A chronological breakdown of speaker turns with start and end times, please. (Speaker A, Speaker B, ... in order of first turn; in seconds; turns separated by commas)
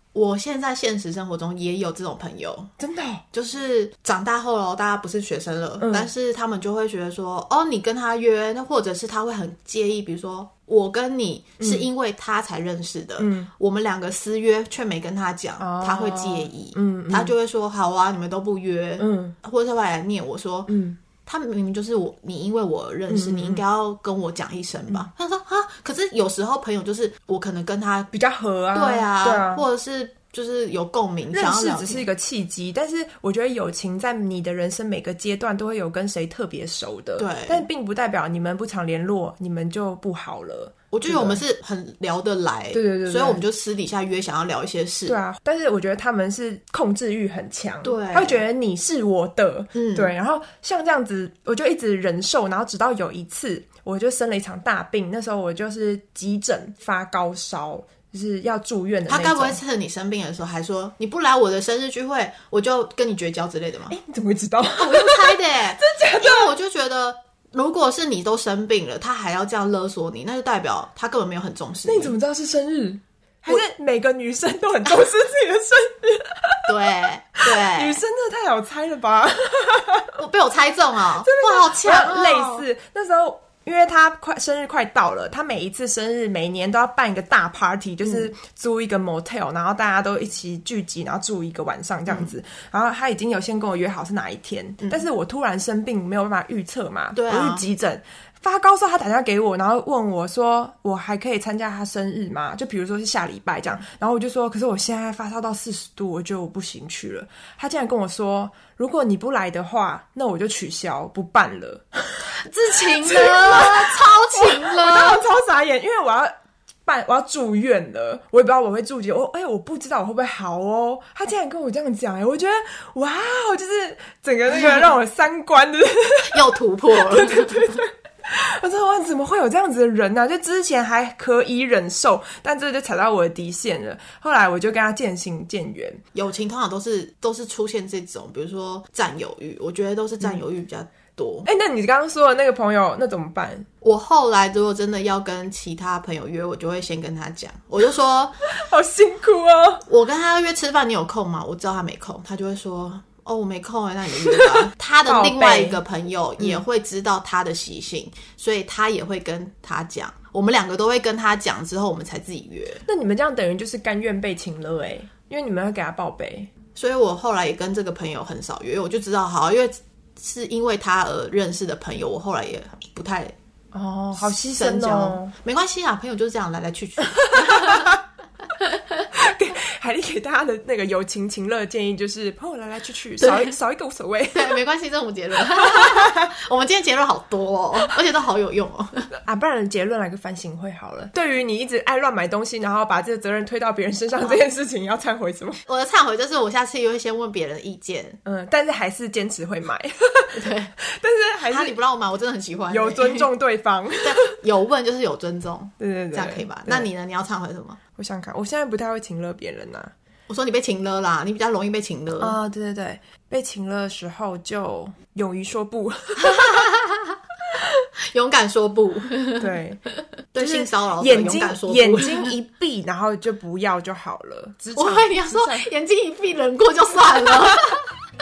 Speaker A: 0.1-2.7, Speaker B: 2.8-3.2, Speaker A: 3.3-20.7, Speaker B: 5.8-6.1, Speaker B: 11.6-11.9, Speaker B: 13.2-13.5, Speaker B: 15.6-17.3, Speaker B: 19.0-19.4, Speaker B: 20.7-21.0, Speaker A: 21.2-28.1, Speaker B: 23.1-23.6, Speaker B: 28.1-29.6, Speaker A: 28.7-32.1, Speaker B: 31.3-41.4, Speaker A: 37.2-37.7, Speaker A: 40.9-45.2, Speaker B: 42.7-43.4, Speaker B: 45.1-59.6, Speaker A: 47.8-48.4, Speaker A: 49.7-50.1, Speaker A: 59.1-64.0, Speaker B: 63.9-66.5, Speaker A: 64.8-72.2, Speaker B: 71.9-76.7, Speaker A: 76.7-78.0, Speaker B: 77.5-80.1, Speaker A: 80.2-82.7, Speaker B: 81.2-112.2, Speaker A: 88.0-88.3, Speaker A: 92.1-92.3, Speaker A: 97.1-97.7, Speaker A: 112.2-115.2, Speaker B: 113.0-116.3, Speaker B: 116.9-126.4, Speaker A: 124.5-124.9, Speaker A: 126.3-127.8, Speaker B: 127.1-136.0, Speaker A: 136.1-141.5, Speaker B: 141.4-143.7, Speaker A: 143.8-148.4, Speaker B: 148.6-149.8, Speaker A: 149.9-162.8, Speaker B: 155.1-155.8, Speaker B: 162.9-166.5, Speaker A: 166.8-173.3, Speaker B: 173.7-175.3, Speaker A: 174.1-177.9, Speaker B: 177.2-178.0, Speaker B: 179.1-184.6, Speaker A: 183.2-183.6, Speaker A: 184.3-189.1, Speaker B: 185.7-186.3, Speaker B: 189.1-195.6, Speaker A: 194.2-194.5, Speaker A: 195.7-198.2, Speaker B: 198.2-201.8, Speaker A: 200.3-200.7, Speaker A: 201.5-203.3, Speaker B: 202.7-204.3, Speaker A: 204.0-207.8, Speaker B: 205.8-206.9, Speaker B: 208.0-209.9, Speaker A: 210.3-212.4, Speaker B: 212.2-216.5, Speaker A: 216.2-217.2, Speaker A: 218.1-219.5, Speaker B: 219.4-219.8, Speaker A: 220.3-222.3, Speaker B: 220.4-225.7, Speaker A: 224.8-227.9